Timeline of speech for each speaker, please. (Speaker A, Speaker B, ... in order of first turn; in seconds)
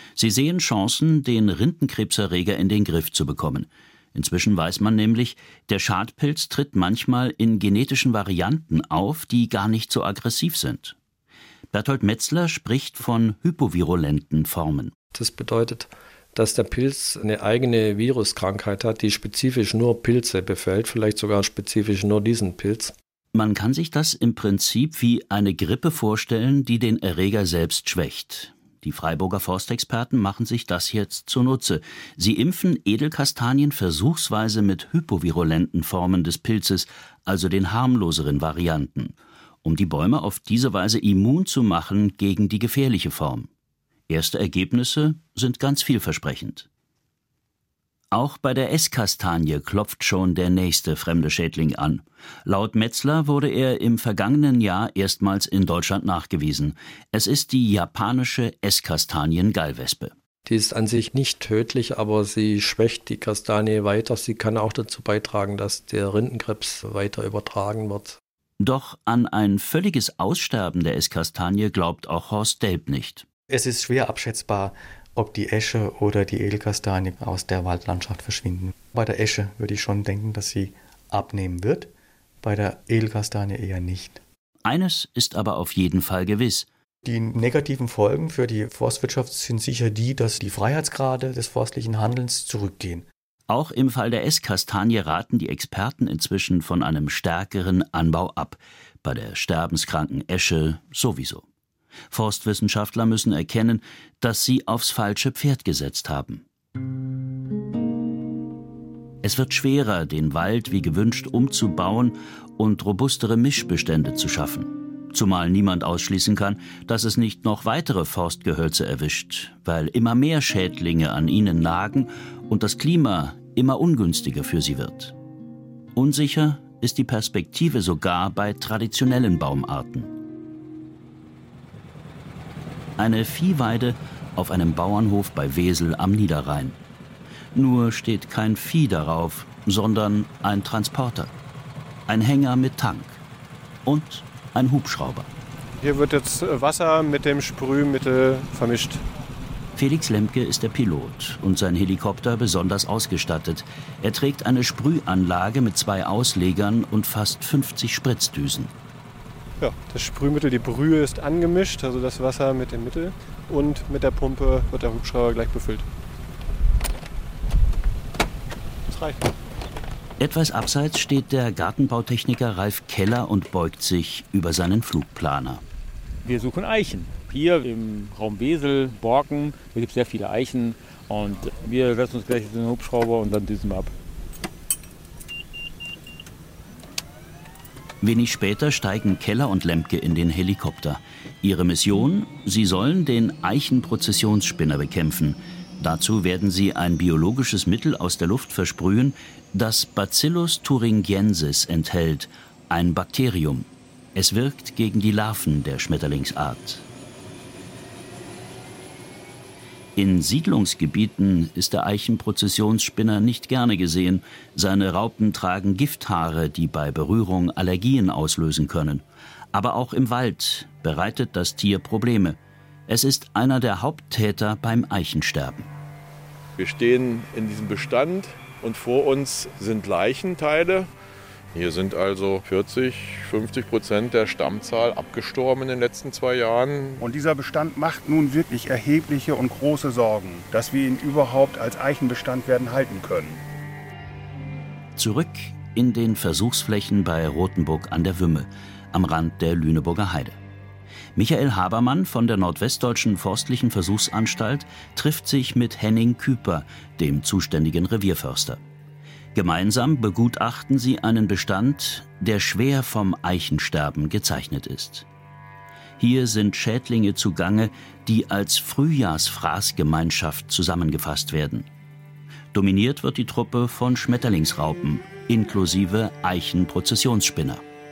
Speaker A: 0.1-10.9, 11.7-14.9, 23.3-43.5, 44.1-46.7, 48.1-60.1, 68.6-73.2, 84.6-86.7, 93.5-101.4, 102.1-106.4, 109.2-125.1, 125.9-130.1, 133.0-136.8, 137.5-141.3, 142.1-143.2, 143.8-145.3, 149.8-158.7, 170.2-175.6, 188.0-206.8, 209.9-225.7, 244.9-250.4, 251.2-258.6, 259.3-265.1, 266.0-271.7, 272.5-277.6
Speaker B: 15.1-22.9, 60.4-68.2
Speaker C: 73.5-81.9, 82.4-84.2, 87.0-93.0
Speaker D: 145.8-149.0, 159.6-165.8, 168.9-169.3
Speaker E: 176.2-183.9
Speaker F: 226.6-230.9, 231.5-237.0
Speaker G: 237.0-243.4